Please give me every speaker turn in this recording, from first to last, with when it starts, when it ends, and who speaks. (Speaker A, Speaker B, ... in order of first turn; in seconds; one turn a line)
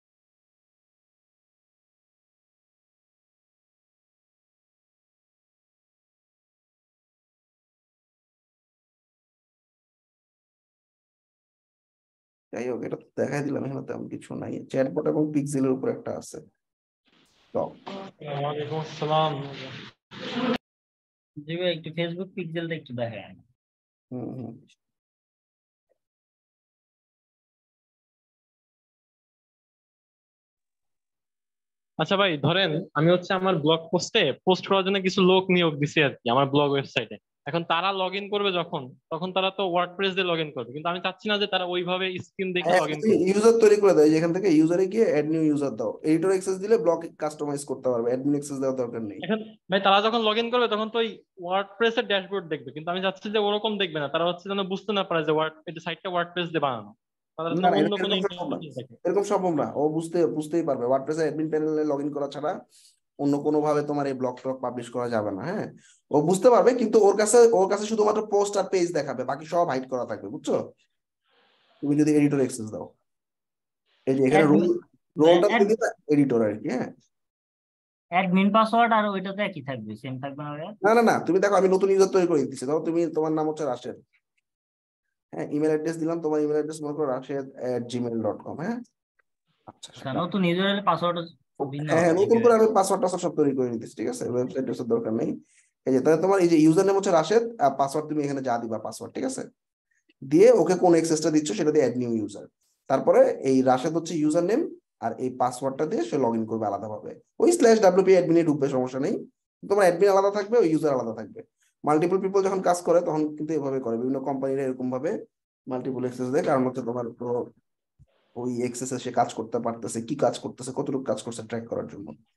Speaker A: 12.5-16.4
Speaker B: 18.2-19.8
Speaker C: 21.4-23.4
Speaker A: 24.1-24.6
Speaker B: 32.0-43.2
Speaker A: 42.6-49.2
Speaker B: 49.2-59.0
Speaker A: 57.5-62.5
Speaker A: 63.2-70.6
Speaker A: 71.8-72.9
Speaker A: 74.1-76.9
Speaker C: 74.3-75.7
Speaker C: 78.2-80.8
Speaker A: 80.8-84.0
Speaker A: 85.3-88.8
Speaker A: 89.7-90.2
Speaker C: 90.0-92.6
Speaker A: 91.9-95.3
Speaker A: 95.9-99.5
Speaker A: 100.3-115.1
Speaker A: 115.7-117.5
Speaker A: 118.4-122.2